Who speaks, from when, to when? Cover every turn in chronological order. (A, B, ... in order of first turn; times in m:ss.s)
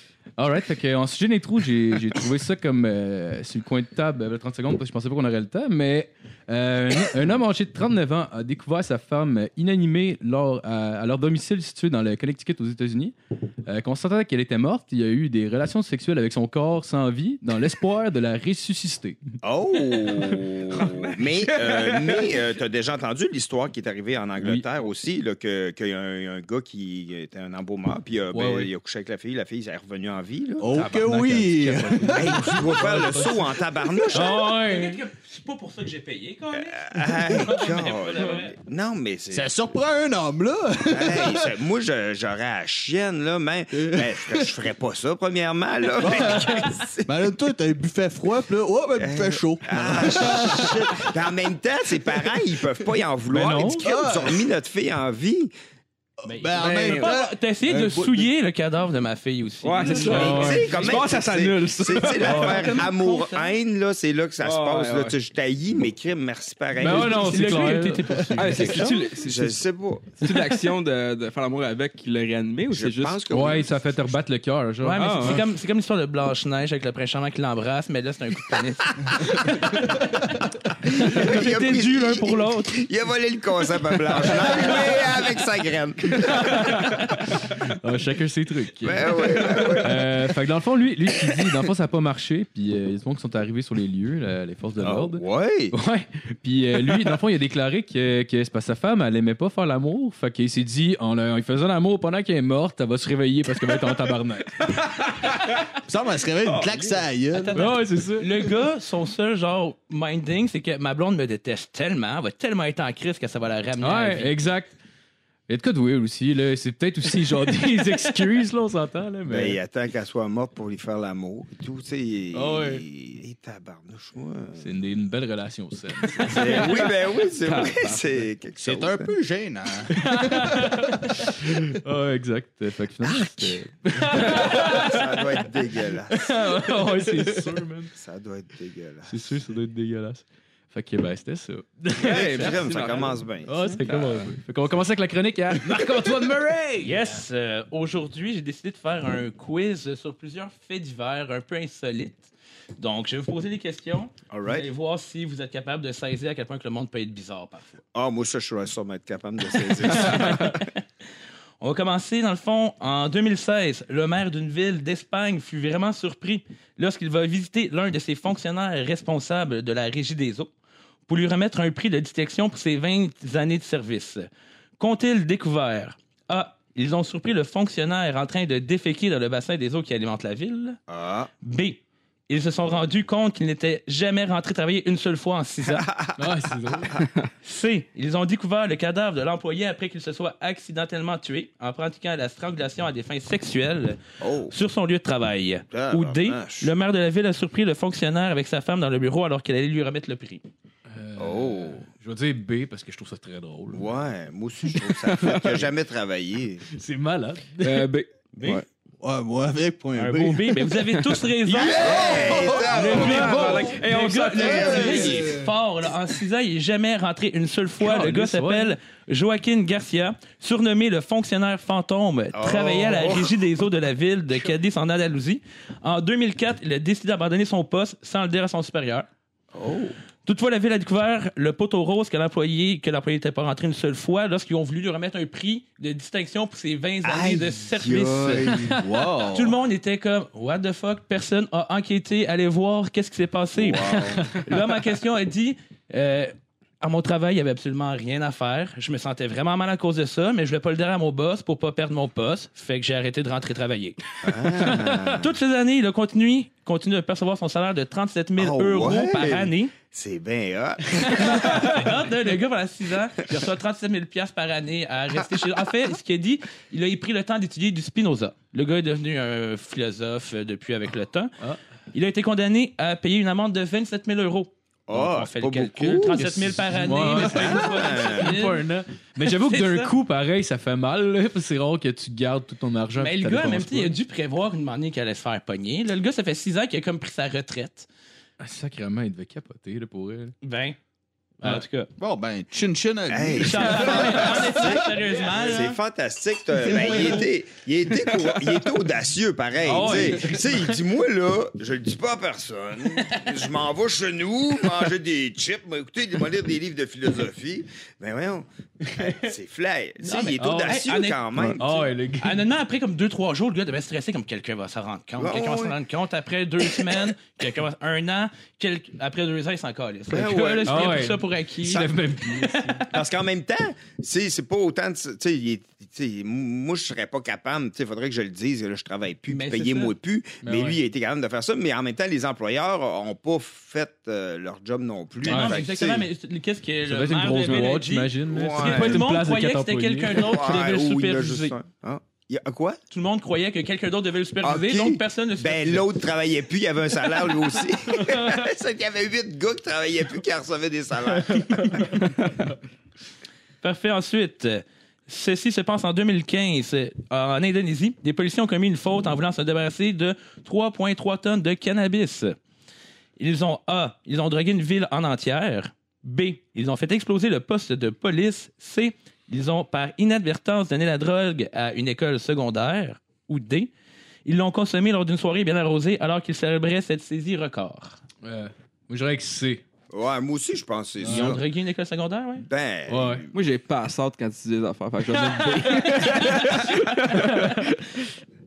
0:00.4-0:19.2 A
0:19.4-0:30.9 B
0:20.7-0:22.4 C
0:24.4-0:24.7 A
0:28.3-0:28.7 A
0:30.6-0:32.6 D
0:30.7-0:33.4 A
0:32.1-0:34.4 B
0:34.1-0:35.0 A
0:34.1-0:38.5 E
0:36.5-0:39.5 B
0:39.3-0:41.5 D
0:40.9-0:47.1 B
0:43.7-0:44.5 D
0:47.1-0:51.1 D
0:49.0-0:55.5 B
0:53.3-0:53.9 A
0:53.6-0:54.5 D
0:56.2-0:58.1 D
0:56.2-1:00.6 E
0:56.6-0:57.2 C
0:57.7-0:58.0 C
0:59.6-1:02.7 C
0:59.9-1:07.4 B
1:00.0-1:00.8 A
1:02.1-1:03.5 E
1:02.2-1:02.6 A
1:04.4-1:05.2 C
1:06.8-1:08.6 A
1:06.9-1:09.2 E
1:08.4-1:09.6 C
1:09.2-1:10.2 B
1:10.2-1:13.3 C
1:12.7-1:14.2 B
1:13.3-1:15.4 A
1:14.8-1:22.8 E
1:14.9-1:15.4 C
1:20.9-1:26.6 B
1:26.2-1:44.7 A
1:28.8-1:30.2 B
1:34.8-1:35.8 B
1:45.9-1:47.7 D
1:46.4-1:47.0 C
1:47.3-1:54.3 E
1:47.6-1:48.3 A
1:53.8-1:54.7 A
1:55.5-1:59.6 A
1:59.3-2:04.8 B
2:02.3-2:02.8 A
2:04.6-2:06.8 A
2:06.2-2:09.1 B
2:06.4-2:06.8 C
2:07.3-2:08.0 C
2:08.6-2:10.5 D
2:09.9-2:15.2 A
2:13.0-2:16.9 B
2:16.1-2:17.9 A
2:17.9-2:19.4 B
2:19.1-2:22.3 A
2:22.0-2:23.2 C
2:22.0-2:24.2 B
2:22.2-2:23.0 E
2:23.4-2:27.2 A
2:23.8-2:24.3 C
2:25.6-2:37.8 E
2:34.3-2:34.7 B
2:37.9-2:40.6 B
2:39.7-2:40.8 E
2:40.0-2:40.5 C
2:41.6-2:50.5 E
2:51.1-2:54.3 E
2:54.8-3:00.8 E
3:00.9-3:01.3 B
3:01.4-3:05.9 E
3:05.6-3:07.0 B
3:06.2-3:07.1 A
3:07.4-3:14.0 E
3:14.2-3:14.6 B
3:14.5-3:20.4 E
3:15.7-3:16.7 B
3:20.9-3:23.9 A
3:21.2-3:21.8 B
3:23.7-3:26.6 B
3:24.8-3:25.7 C
3:26.8-3:27.9 A
3:27.6-3:28.7 C
3:28.4-3:28.6 E
3:29.0-3:30.6 D
3:30.0-3:49.1 E
3:30.8-3:35.2 C
3:31.5-3:33.7 B
3:31.6-3:33.6 D
3:34.4-3:35.4 B
3:34.5-3:35.5 D
3:37.8-3:38.8 A
3:42.3-3:43.5 B
3:49.5-3:50.0 B
3:50.3-3:58.5 E
3:57.0-3:58.8 B
3:58.7-3:59.6 D
3:59.3-4:19.7 E
4:03.5-4:04.4 B
4:04.1-4:04.5 A
4:14.2-4:15.3 B
4:18.4-4:21.8 B
4:21.0-4:31.4 E
4:31.9-4:38.6 E
4:34.9-4:36.3 B
4:36.2-4:43.9 A
4:37.2-4:38.5 B
4:39.2-4:39.9 E
4:43.0-4:47.9 E
4:48.4-4:50.4 A
4:50.4-4:50.8 E
4:51.4-4:51.9 E
4:52.0-4:54.8 D
4:53.1-5:11.9 B
4:53.4-4:55.8 E
4:56.6-4:57.2 E
4:59.6-5:00.8 A
4:59.7-5:00.4 E
5:03.1-5:03.3 E
5:10.0-5:11.3 E
5:10.4-5:10.9 A
5:11.6-5:12.4 A
5:12.2-5:22.9 E
5:15.2-5:15.8 B
5:20.1-5:21.0 B
5:20.7-5:22.8 A
5:22.9-5:36.1 B
5:29.3-5:29.9 E
5:30.4-5:30.8 A
5:35.2-5:41.6 E
5:35.3-5:35.6 A
5:36.9-5:40.6 A
5:38.3-5:39.1 B
5:40.1-5:42.8 B
5:42.9-5:45.9 E
5:44.4-5:52.0 B
5:51.3-5:52.0 A
5:53.6-6:02.4 E
6:03.2-6:13.7 E
6:14.3-6:18.0 E
6:18.2-6:19.6 A
6:19.9-6:21.4 B
6:21.0-6:21.4 A
6:21.0-6:22.4 E
6:22.4-6:23.4 B
6:22.9-6:23.3 A
6:23.3-6:27.8 C
6:25.2-6:26.6 E
6:25.4-6:26.6 A
6:27.1-6:27.6 A